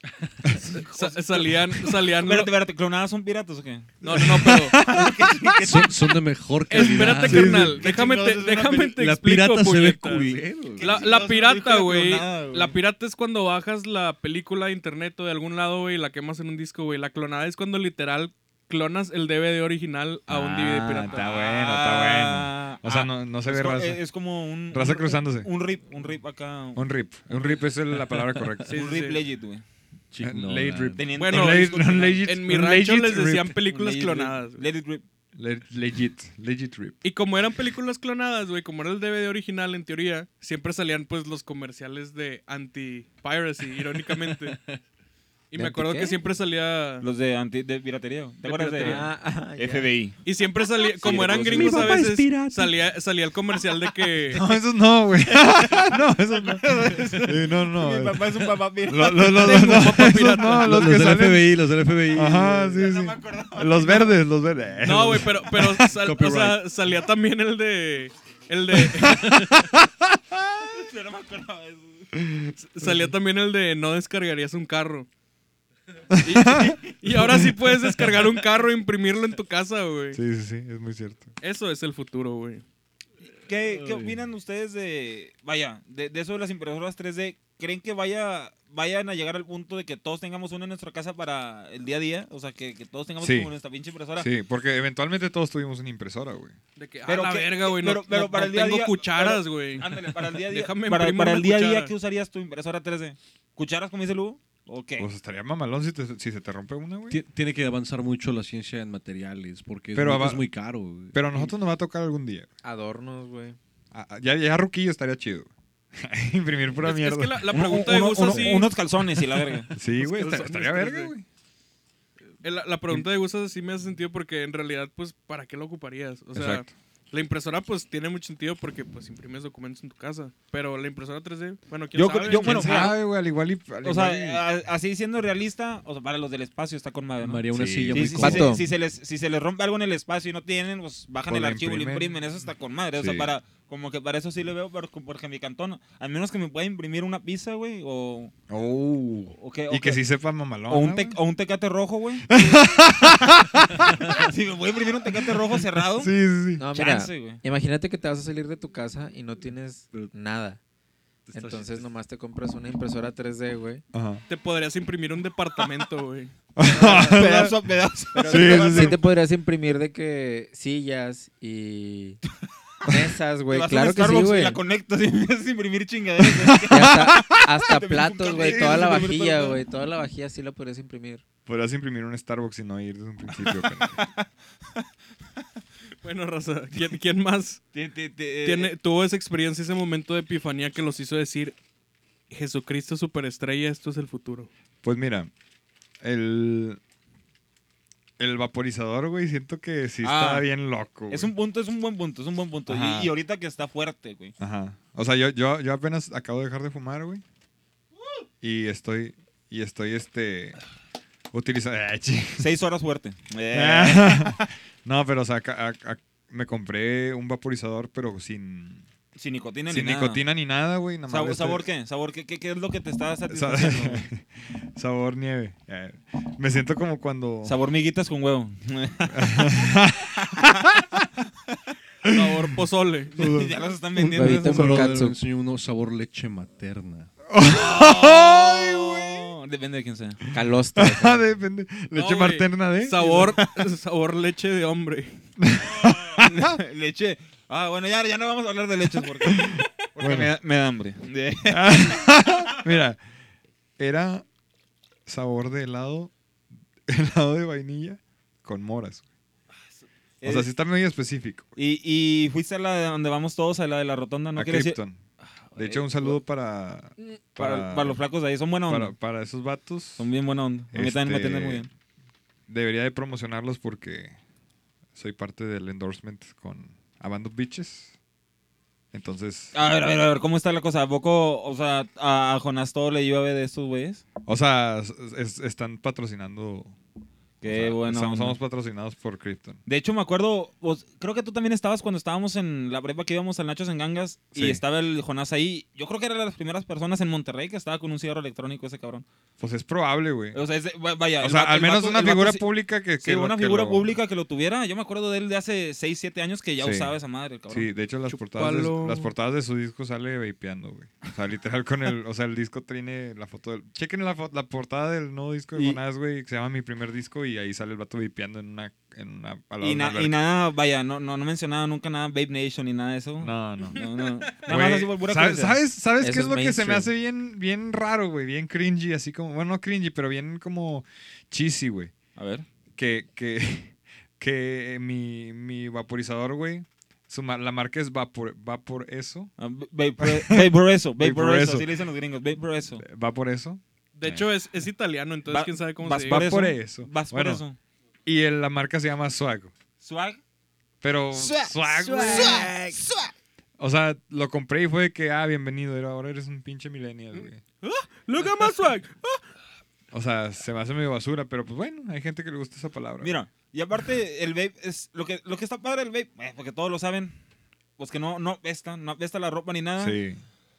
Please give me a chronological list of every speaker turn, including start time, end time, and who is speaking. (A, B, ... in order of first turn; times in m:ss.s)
0:00.7-0:02.5 A
0:00.7-0:01.5 B
0:02.1-0:06.2 B
0:04.0-0:05.6 C
0:04.1-0:04.8 A
0:05.6-0:07.9 D
0:06.7-0:21.3 A
0:07.2-0:07.8 C
0:07.6-0:09.0 B
0:09.0-0:11.3 D
0:10.8-0:12.8 B
0:20.3-0:24.0 C
0:21.0-0:27.6 B
0:24.7-0:25.5 C
0:26.8-0:28.8 C
0:28.7-0:29.2 A
0:28.7-0:29.6 B
0:30.1-0:31.1 D
0:30.2-0:33.6 C
0:31.0-0:32.2 B
0:31.2-0:34.6 A
0:33.7-0:35.0 B
0:35.4-0:37.0 C
0:37.0-0:44.6 A
0:44.4-0:44.8 D
0:45.5-0:47.0 A
0:45.6-0:46.2 E
0:47.0-0:50.2 B
0:48.4-0:49.1 A
0:48.8-0:49.9 E
0:50.2-0:54.4 A
0:51.0-0:52.0 B
0:51.0-0:52.5 D
0:51.7-0:52.4 C
0:54.3-0:58.3 C
0:55.3-0:59.9 B
0:58.9-1:06.5 C
0:59.3-1:01.0 A
1:00.6-1:02.8 D
1:02.7-1:04.2 B
1:04.8-1:09.6 A
1:06.0-1:06.6 D
1:08.8-1:10.7 C
1:10.7-1:12.1 B
1:12.2-1:12.9 C
1:12.6-1:15.1 A
1:16.1-1:18.2 C
1:16.2-1:20.2 A
1:20.1-1:21.3 C
1:21.4-1:22.6 A
1:23.4-1:34.3 B
1:23.7-1:24.2 D
1:33.2-1:33.5 C
1:34.2-1:36.6 C
1:36.8-1:41.9 A
1:37.1-1:45.1 B
1:45.0-1:47.2 C
1:47.1-1:51.5 D
1:49.9-1:50.5 C
1:51.1-1:52.5 C
1:52.6-1:53.6 E
1:53.9-1:57.5 C
1:56.8-1:58.7 A
1:57.5-1:59.7 B
1:58.2-1:58.5 C
1:59.7-2:01.2 C
2:00.0-2:01.1 A
2:02.4-2:12.9 A
2:06.3-2:06.7 C
2:12.0-2:13.0 B
2:12.3-2:14.4 C
2:13.8-2:28.3 B
2:17.2-2:18.6 D
2:17.5-2:18.2 C
2:18.2-2:18.6 E
2:21.3-2:22.1 C
2:23.0-2:23.3 C
2:28.5-2:31.2 C
2:29.4-2:30.0 B
2:30.7-2:32.6 B
2:32.3-2:34.3 C
2:34.0-2:36.1 B
2:35.2-2:36.6 C
2:36.6-2:40.6 E
2:36.7-2:37.4 B
2:41.3-2:41.9 D
2:41.3-2:43.8 E
2:43.9-2:44.2 C
2:44.3-2:46.4 A
2:46.6-2:47.6 C
2:46.7-2:49.0 B
2:48.2-2:52.2 E
2:48.2-2:49.0 C
2:52.9-2:54.6 E
2:53.5-2:57.0 B
2:56.2-2:57.5 C
2:56.7-3:01.2 E
2:57.7-2:59.6 B
2:58.3-2:59.1 C
3:01.5-3:04.1 C
3:03.4-3:04.8 B
3:06.0-3:07.6 A
3:07.7-3:08.7 B
3:08.4-3:11.6 A
3:12.3-3:14.5 A
3:14.8-3:15.3 C
3:16.0-3:16.8 C
3:18.2-3:21.3 C
3:20.0-3:20.5 B
3:21.1-3:24.3 B
3:22.7-3:23.1 C
3:24.4-3:27.2 C
3:28.4-3:30.6 C
3:31.3-3:32.5 C
3:32.4-3:34.4 B
3:33.5-3:38.9 C
3:39.2-3:40.2 B
3:39.7-3:41.7 C
3:41.1-3:44.0 B
3:43.3-3:47.6 C
3:47.4-3:50.5 B
3:49.1-3:51.1 C
3:52.0-3:52.6 C
3:52.1-3:53.2 A
3:53.2-3:55.0 B
3:53.2-3:53.5 C
3:54.0-3:57.1 D
3:54.1-3:55.2 E
3:57.3-3:59.3 C
3:57.4-4:00.2 B
4:00.3-4:01.3 E
4:00.8-4:03.4 C
4:01.9-4:05.2 A
4:05.4-4:06.6 C
4:05.8-4:12.2 B
4:09.2-4:10.3 C
4:11.5-4:13.0 C
4:13.8-4:14.2 C
4:15.1-4:16.1 C
4:16.9-4:19.0 C
4:20.2-4:20.5 B
4:20.2-4:21.5 C
4:21.6-4:24.8 B
4:24.4-4:25.0 C
4:25.5-4:26.2 B
4:25.6-4:28.0 C
4:27.0-4:28.9 B
4:28.7-4:30.1 C
4:30.0-4:31.7 B
4:30.7-4:31.7 C
4:32.5-4:34.2 C
4:35.0-4:37.9 C
4:38.9-4:39.6 C
4:39.5-4:44.0 B
4:44.3-4:46.8 C
4:47.4-4:48.4 B
4:47.5-4:49.6 C
4:49.7-4:59.1 B
4:54.4-4:54.6 C
4:59.4-5:00.4 C
5:00.3-5:02.5 B
5:01.2-5:03.9 C
5:03.0-5:07.7 B
5:06.6-5:07.0 C
5:07.5-5:20.1 C
5:08.1-5:09.1 A
5:19.6-5:25.6 B
5:23.2-5:23.8 C
5:23.7-5:24.5 A
5:24.5-5:31.9 C
5:26.0-5:26.9 E
5:32.2-5:32.5 B
5:32.8-5:39.3 C
5:39.4-5:42.8 B
5:40.0-5:40.5 C
5:41.0-5:41.7 C
5:42.8-5:44.3 C
5:44.0-5:46.3 A
5:45.3-5:47.6 B
5:46.1-5:47.4 C
5:48.1-5:49.5 C
5:49.8-5:50.2 B
5:50.8-5:52.6 C
5:51.1-5:53.1 B
5:53.6-5:57.4 C
5:57.1-5:59.2 A
5:59.9-6:03.1 C
6:03.0-6:07.2 B
6:07.8-6:10.0 B
6:09.8-6:10.2 C